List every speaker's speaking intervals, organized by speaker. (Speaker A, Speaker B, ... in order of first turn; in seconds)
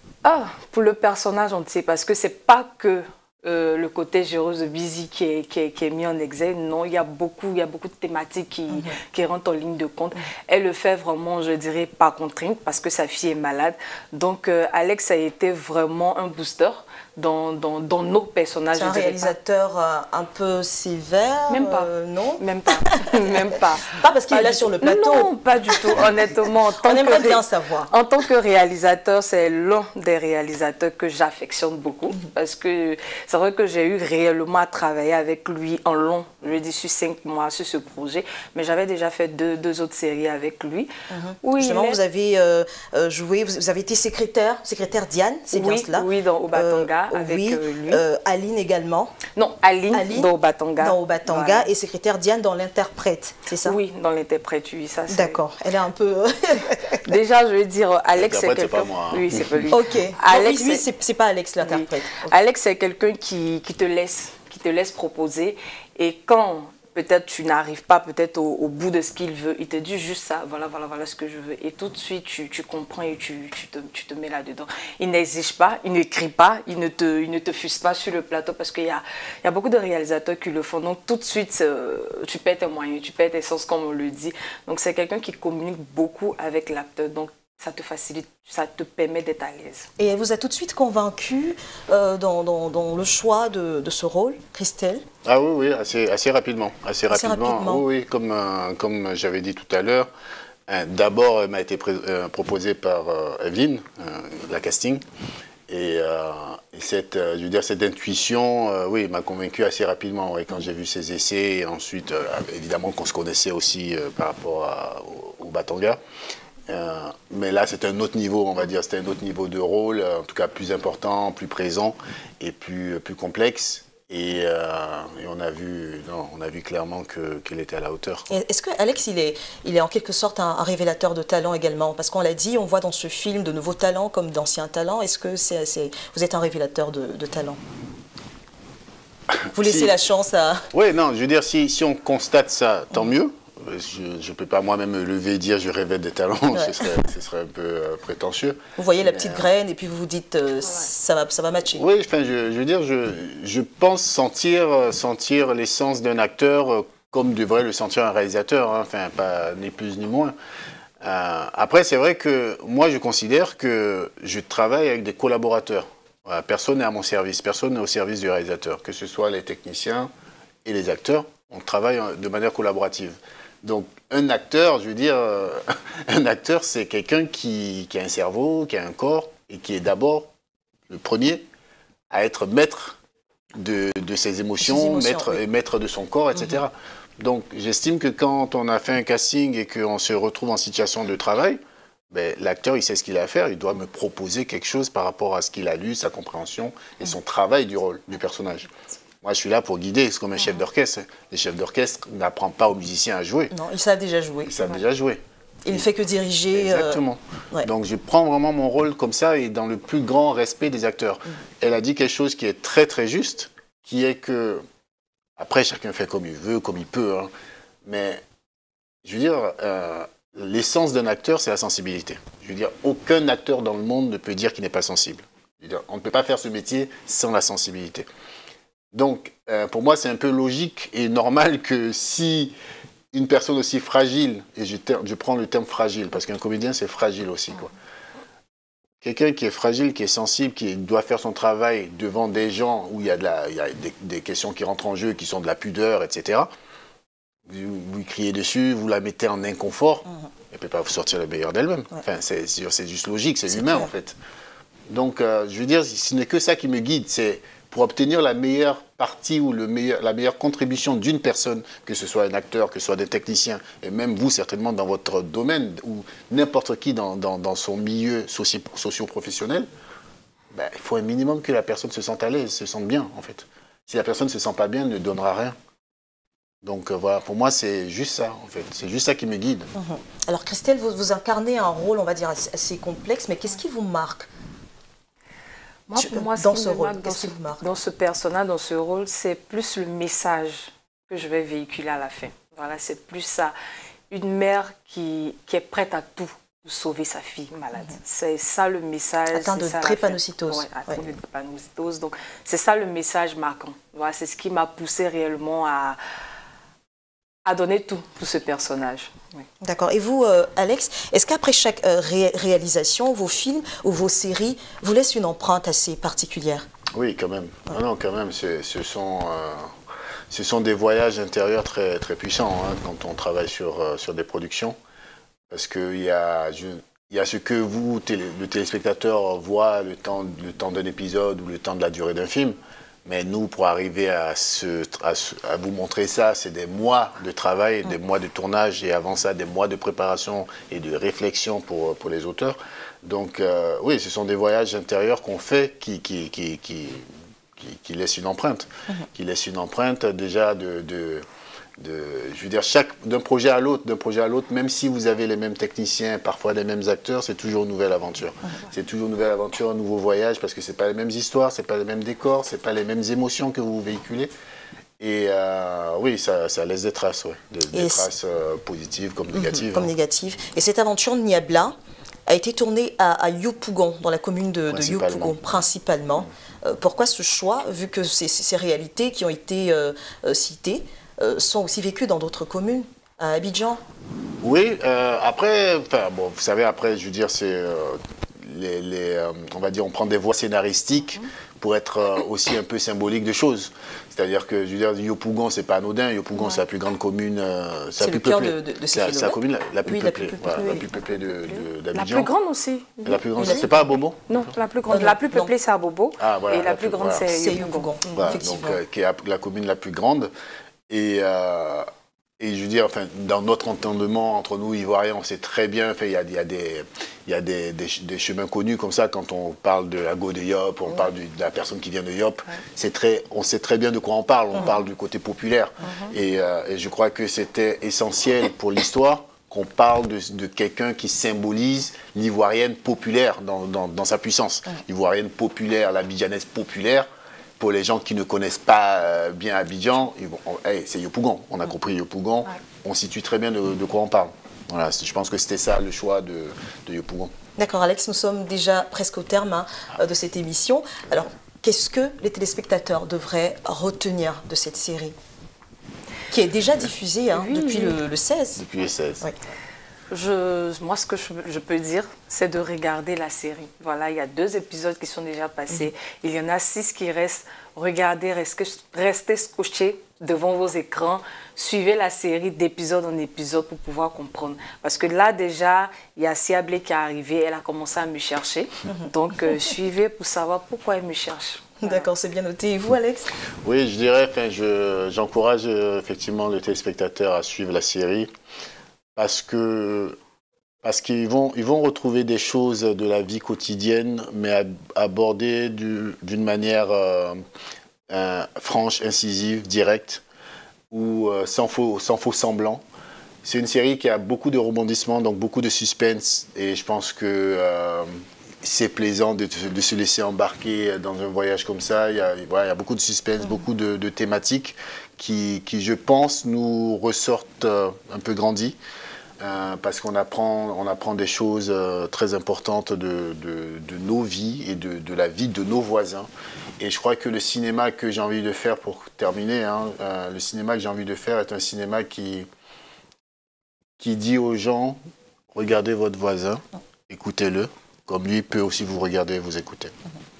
Speaker A: 0.2-19.4, 21.5-40.9, 41.4-42.0, 45.5-48.0, 49.3-51.7, 53.6-55.4, 57.0-60.8, 61.6-89.9, 285.9-293.5, 294.1-306.0, 307.4-309.4, 401.3-403.7, 404.3-408.4, 457.3-458.0, 460.1-482.0
Speaker B: 8.7-8.9, 18.7-23.1, 23.9-25.9, 26.8-27.9, 41.1-49.2, 49.9-53.8, 55.1-57.0, 59.7-62.3, 90.0-95.0, 97.1-97.8, 128.3-137.6, 139.5-140.7, 146.5-146.9, 148.8-151.8, 184.6-185.4, 203.5-204.6, 205.6-207.7, 253.5-253.9, 279.7-284.3, 285.9-287.6, 299.3-301.0, 309.6-316.7, 367.7-368.1, 369.3-371.7, 372.3-383.8, 398.0-400.9, 403.4-403.7, 404.9-405.5, 407.3-408.8, 447.6-455.1, 456.3-458.6, 481.8-483.3
Speaker C: 58.1-59.7, 95.2-100.1, 100.7-105.0, 105.7-116.0, 116.7-128.3, 139.4-139.9, 140.7-149.5, 151.8-160.3, 161.0-170.1, 170.6-180.3, 180.9-181.5, 182.1-183.0, 183.6-191.6, 192.1-198.7, 199.2-203.5, 204.4-205.9, 206.5-214.6, 215.4-217.3, 217.8-218.2, 219.0-228.1, 228.9-232.5, 233.1-237.7, 239.0-246.5, 247.5-254.2, 254.9-269.7, 270.5-275.5, 276.6-279.7, 316.9-319.7, 320.3-324.7, 325.5-351.2, 351.8-364.3, 365.0-369.9, 374.7-375.4, 384.4-402.3, 403.0-404.4, 406.2-407.3, 408.1-410.3, 410.9-411.8, 412.4-437.1, 437.6-447.3, 458.6-459.2, 483.6-488.3, 489.1-490.2, 490.8-497.4, 498.1-500.2, 500.9-502.8, 503.4-508.1, 508.6-518.8, 519.4-526.3, 526.8-532.5, 534.0-535.0, 535.5-539.9